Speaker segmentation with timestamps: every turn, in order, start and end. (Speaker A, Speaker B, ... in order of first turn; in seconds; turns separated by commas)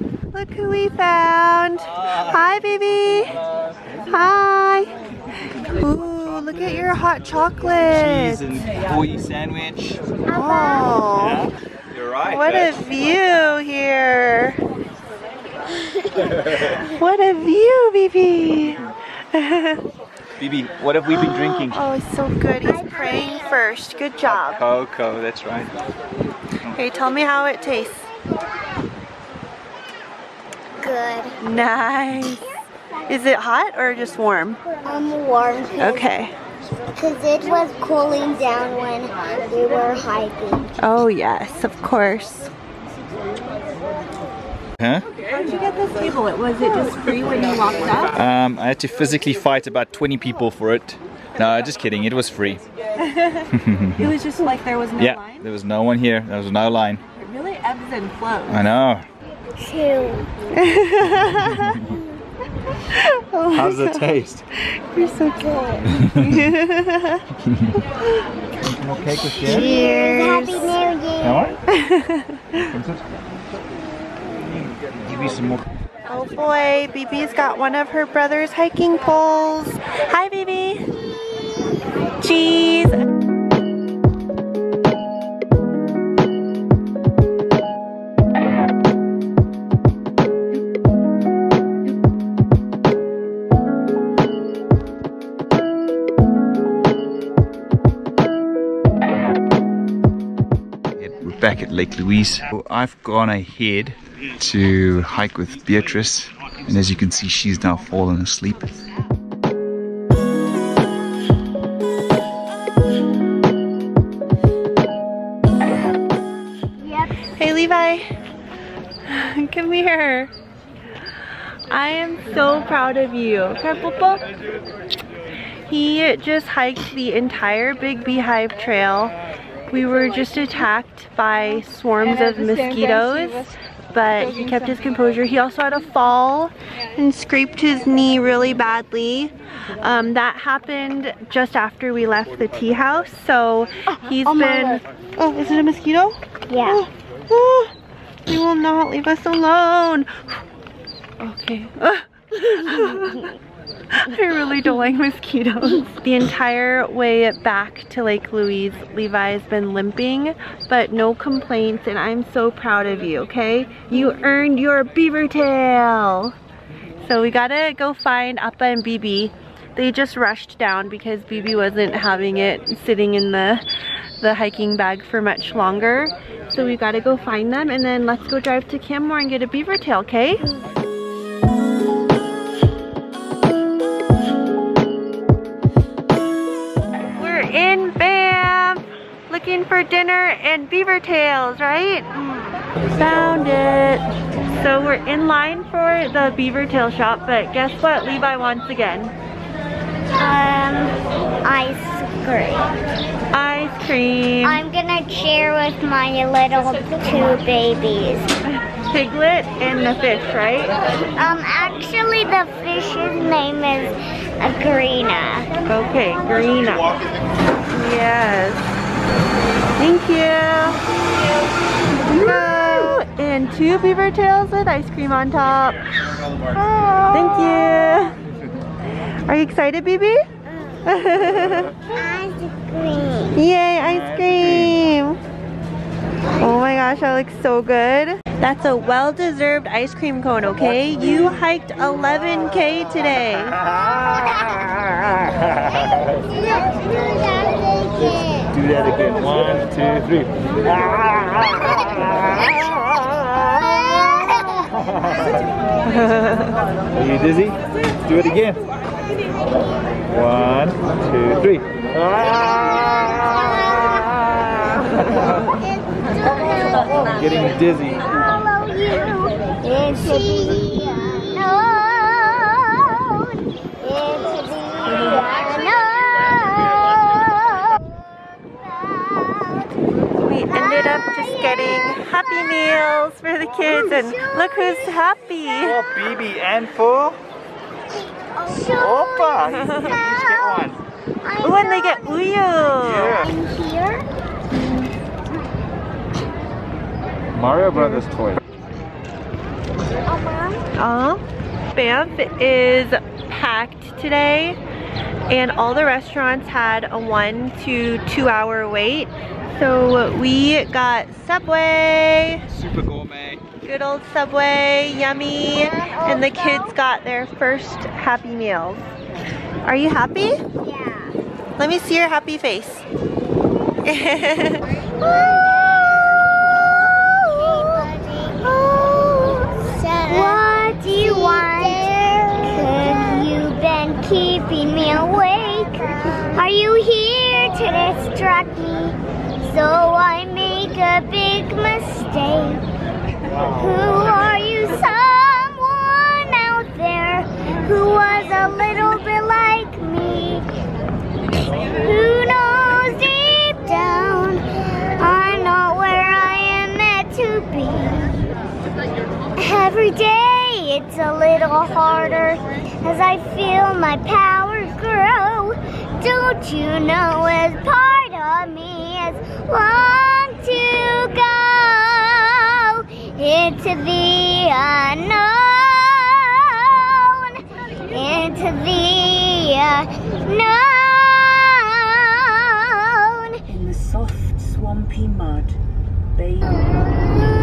Speaker A: 0.3-3.3, Speaker A: 4.1-4.9, Speaker A: 5.7-8.7, Speaker B: 7.9-10.0, Speaker A: 10.3-11.5, Speaker C: 10.3-10.9, Speaker B: 11.2-12.8, Speaker A: 12.2-14.6, Speaker A: 16.7-19.8, Speaker B: 20.4-21.8, Speaker A: 21.4-24.6, Speaker C: 22.6-23.6, Speaker B: 24.3-25.8, Speaker A: 26.7-28.1, Speaker C: 30.8-31.4, Speaker A: 31.4-34.6, Speaker C: 34.8-36.1, Speaker A: 35.8-36.3, Speaker C: 37.0-40.7, Speaker A: 40.8-42.5, Speaker B: 44.8-45.1, Speaker A: 45.3-48.1, Speaker B: 48.1-52.7, Speaker A: 53.1-55.5, Speaker B: 53.5-54.1, Speaker B: 55.0-57.0, Speaker A: 57.2-58.7, Speaker B: 58.5-59.0, Speaker C: 59.6-60.3, Speaker A: 60.5-61.8, Speaker B: 61.2-62.0, Speaker A: 62.7-64.1, Speaker B: 63.5-64.5, Speaker A: 64.7-67.2, Speaker C: 65.5-65.8, Speaker B: 66.0-66.4, Speaker B: 67.4-67.8, Speaker B: 68.6-69.7, Speaker A: 69.2-70.8, Speaker C: 69.5-71.5, Speaker B: 71.2-71.6, Speaker A: 71.7-72.7, Speaker B: 72.6-73.1, Speaker B: 75.0-75.6, Speaker A: 76.1-80.9, Speaker A: 82.2-83.0, Speaker B: 101.0-108.8, Speaker C: 116.8-117.3, Speaker A: 117.3-118.1, Speaker A: 119.1-120.3, Speaker A: 121.7-124.2, Speaker A: 125.7-129.2, Speaker A: 129.7-147.7, Speaker C: 144.2-144.8, Speaker C: 146.5-146.8, Speaker A: 148.3-150.2, Speaker A: 151.2-153.3, Speaker A: 153.9-166.3, Speaker A: 167.0-173.7, Speaker A: 174.2-180.5, Speaker A: 187.2-199.1, Speaker C: 200.2-202.8, Speaker A: 203.3-204.6, Speaker C: 204.4-208.3, Speaker A: 208.7-210.7, Speaker C: 211.2-215.5, Speaker A: 215.7-217.0, Speaker A: 217.7-218.7, Speaker A: 219.8-220.8, Speaker A: 222.0-225.9, Speaker C: 226.5-227.3, Speaker A: 227.1-228.2, Speaker A: 229.2-230.2, Speaker A: 230.8-231.7, Speaker C: 231.9-233.4, Speaker A: 233.3-235.2, Speaker B: 233.8-234.8, Speaker A: 236.4-243.6, Speaker B: 243.8-244.2, Speaker B: 244.9-246.2, Speaker C: 246.2-248.6, Speaker B: 248.5-252.2, Speaker C: 253.8-255.4, Speaker B: 256.9-258.6, Speaker B: 260.1-261.9, Speaker C: 262.1-267.1, Speaker B: 267.0-268.2, Speaker C: 268.1-279.7, Speaker A: 280.2-285.8, Speaker C: 280.5-281.8, Speaker C: 283.7-284.9, Speaker B: 285.6-287.2, Speaker C: 288.0-294.1, Speaker B: 288.5-290.8, Speaker A: 289.5-289.9, Speaker A: 291.4-293.1, Speaker B: 292.8-293.3, Speaker B: 297.3-298.4, Speaker A: 297.8-298.0, Speaker C: 300.1-300.6, Speaker A: 300.8-301.2, Speaker A: 301.7-304.6, Speaker A: 305.3-312.4, Speaker B: 312.5-313.4, Speaker A: 313.6-318.9, Speaker C: 315.5-316.7, Speaker A: 319.6-320.4, Speaker C: 320.6-321.2, Speaker A: 321.6-322.9, Speaker A: 323.9-324.7, Speaker C: 325.0-342.6, Speaker A: 330.1-331.7, Speaker C: 343.4-350.5, Speaker C: 351.4-358.2, Speaker C: 359.4-383.4, Speaker D: 383.5-385.6, Speaker D: 386.2-386.5